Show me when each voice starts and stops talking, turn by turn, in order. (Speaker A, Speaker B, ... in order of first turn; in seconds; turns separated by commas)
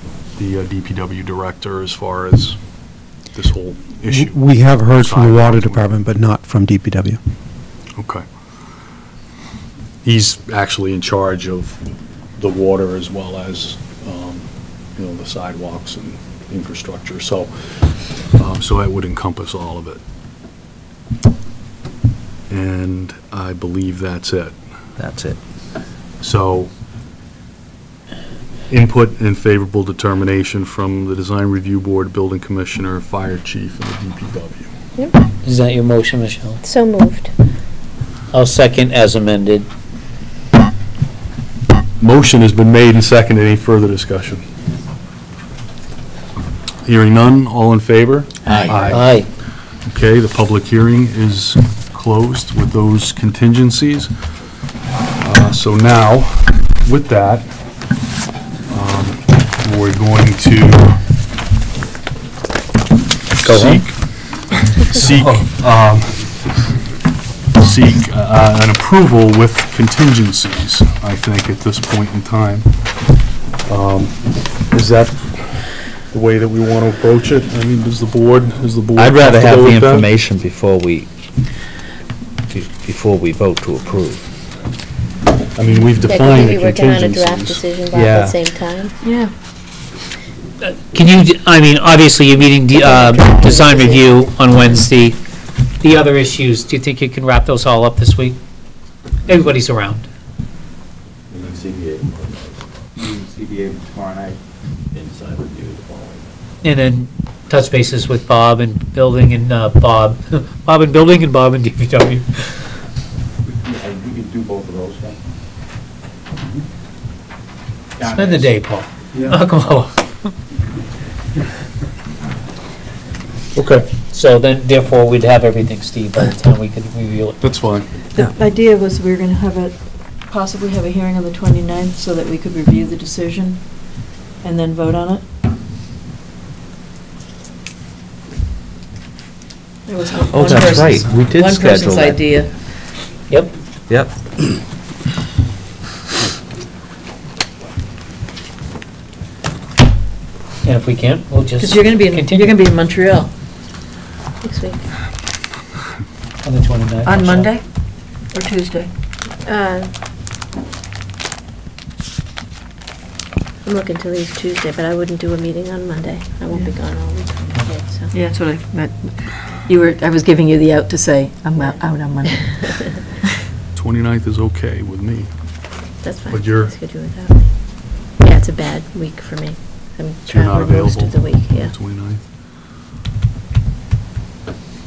Speaker A: 0.4-2.6, Speaker A: 3.3-5.9, Speaker B: 4.1-7.2, Speaker A: 8.0-8.2, Speaker A: 10.0-11.8, Speaker A: 12.4-17.7, Speaker A: 18.3-20.0, Speaker A: 22.5-24.5, Speaker C: 25.0-25.4, Speaker A: 26.2-26.7, Speaker A: 28.7-34.7, Speaker D: 35.4-36.6, Speaker E: 36.6-37.3, Speaker D: 38.3-39.7, Speaker A: 42.0-44.4, Speaker A: 46.8-49.0, Speaker D: 48.9-49.3, Speaker A: 49.9-54.1, Speaker A: 55.2-57.5, Speaker A: 58.7-61.0, Speaker A: 63.4-64.0, Speaker D: 63.4-63.8, Speaker A: 64.5-66.3, Speaker D: 65.0-65.4, Speaker A: 67.6-72.7, Speaker A: 73.6-80.1, Speaker C: 79.0-81.1, Speaker C: 82.5-84.3, Speaker A: 85.5-87.6, Speaker E: 86.0-89.0, Speaker C: 87.9-88.4, Speaker F: 89.0-89.3, Speaker D: 90.6-95.2, Speaker E: 92.8-94.2, Speaker D: 95.8-98.4, Speaker D: 99.3-100.1, Speaker G: 101.3-104.4, Speaker G: 104.9-106.3, Speaker D: 106.6-112.8, Speaker G: 113.6-115.2, Speaker G: 118.0-118.5, Speaker D: 118.0-120.3, Speaker A: 123.5-123.9, Speaker D: 124.1-127.4, Speaker A: 127.4-127.9, Speaker F: 128.1-133.7, Speaker F: 134.4-135.2, Speaker F: 139.9-142.5, Speaker C: 140.3-142.2, Speaker C: 143.9-144.2, Speaker D: 150.6-152.6, Speaker F: 151.6-153.3, Speaker E: 154.4-154.8, Speaker D: 156.4-157.5, Speaker F: 157.1-157.6, Speaker F: 158.3-158.9, Speaker E: 159.4-159.9, Speaker E: 163.6-168.1, Speaker F: 168.1-173.4, Speaker E: 172.5-173.0, Speaker A: 173.7-175.3, Speaker E: 176.0-177.5, Speaker A: 176.3-176.7, Speaker E: 178.2-181.7, Speaker A: 180.3-182.2